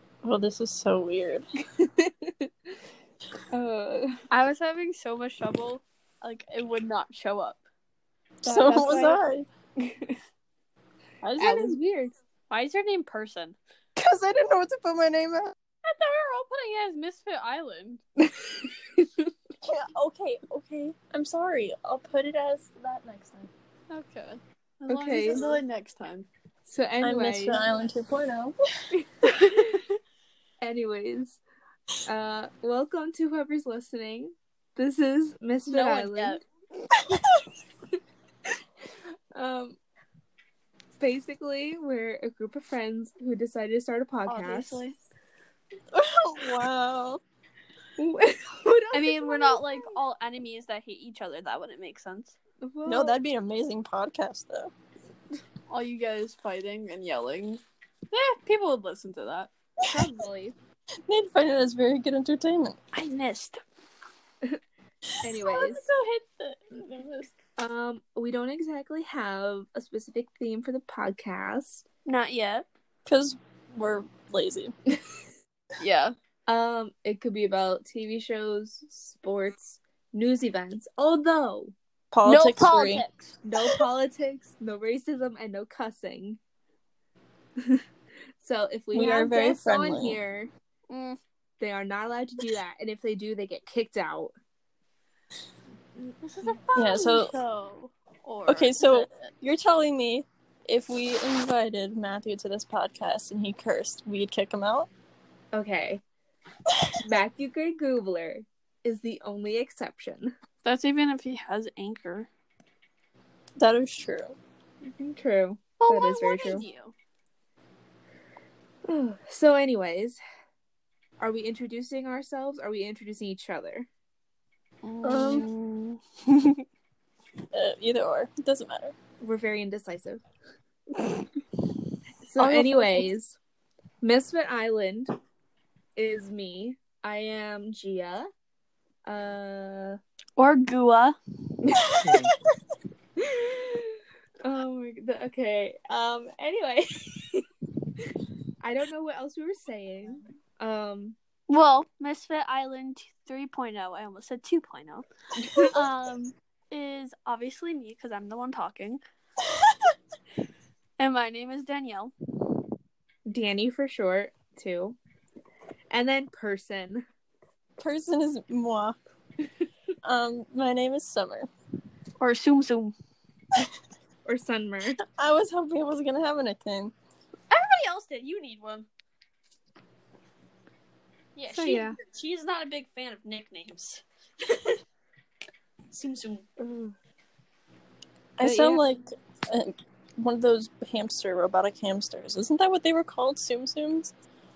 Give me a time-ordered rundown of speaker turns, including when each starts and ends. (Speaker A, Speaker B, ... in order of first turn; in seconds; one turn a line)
Speaker A: 0.2-1.4
Speaker B: 1.9-2.3
Speaker B: 3.5-4.1
Speaker C: 4.3-7.6
Speaker A: 8.4-9.5
Speaker B: 8.4-9.2
Speaker C: 8.5-9.1
Speaker B: 9.8-10.2
Speaker A: 11.2-11.8
Speaker B: 11.4-12.2
Speaker C: 12.5-13.6
Speaker A: 14.0-15.5
Speaker C: 15.8-18.0
Speaker B: 18.2-19.3
Speaker A: 19.6-23.5
Speaker C: 23.9-26.3
Speaker B: 24.9-25.5
Speaker A: 25.3-25.6
Speaker B: 26.7-27.6
Speaker A: 27.0-28.6
Speaker B: 28.9-29.9
Speaker B: 30.6-31.4
Speaker B: 32.0-36.4
Speaker C: 35.7-36.4
Speaker B: 39.3-39.8
Speaker B: 41.0-44.8
Speaker C: 44.2-45.0
Speaker A: 45.9-47.2
Speaker B: 48.0-50.0
Speaker C: 48.9-52.4
Speaker B: 52.6-53.2
Speaker A: 52.9-54.7
Speaker C: 55.7-59.5
Speaker B: 59.8-60.5
Speaker A: 61.1-62.8
Speaker C: 62.9-63.6
Speaker B: 65.2-65.9
Speaker A: 65.4-67.3
Speaker B: 67.6-71.8
Speaker C: 72.1-72.7
Speaker A: 73.1-74.7
Speaker C: 75.8-76.2
Speaker B: 76.5-81.7
Speaker A: 82.1-83.0
Speaker C: 82.2-83.3
Speaker B: 83.4-86.4
Speaker B: 88.4-90.5
Speaker A: 88.9-90.2
Speaker C: 90.9-91.2
Speaker B: 91.6-94.3
Speaker B: 96.0-96.6
Speaker C: 96.2-99.1
Speaker A: 96.8-97.4
Speaker A: 98.5-104.9
Speaker B: 105.5-106.0
Speaker B: 107.0-110.3
Speaker C: 110.6-112.3
Speaker A: 113.6-114.4
Speaker B: 114.9-116.7
Speaker C: 115.8-116.9
Speaker B: 118.9-120.2
Speaker B: 121.2-123.9
Speaker C: 124.8-126.6
Speaker A: 125.0-125.5
Speaker A: 127.5-128.9
Speaker B: 129.2-130.2
Speaker B: 132.2-133.4
Speaker A: 132.4-133.1
Speaker B: 134.0-135.1
Speaker B: 136.0-138.3
Speaker B: 139.1-140.0
Speaker C: 140.4-141.2
Speaker B: 141.7-142.2
Speaker B: 143.2-143.9
Speaker B: 144.4-147.4
Speaker B: 148.6-151.2
Speaker C: 151.5-155.1
Speaker B: 155.4-155.8
Speaker C: 155.7-159.0
Speaker C: 161.0-162.1
Speaker B: 163.3-165.0
Speaker B: 165.9-167.1
Speaker A: 167.8-169.0
Speaker A: 170.0-171.5
Speaker C: 172.2-172.9
Speaker B: 174.2-175.0
Speaker A: 175.1-176.9
Speaker C: 177.5-178.9
Speaker C: 181.4-184.8
Speaker B: 181.5-182.0
Speaker C: 185.9-186.4
Speaker B: 186.6-186.9
Speaker A: 188.4-194.1
Speaker B: 188.4-188.8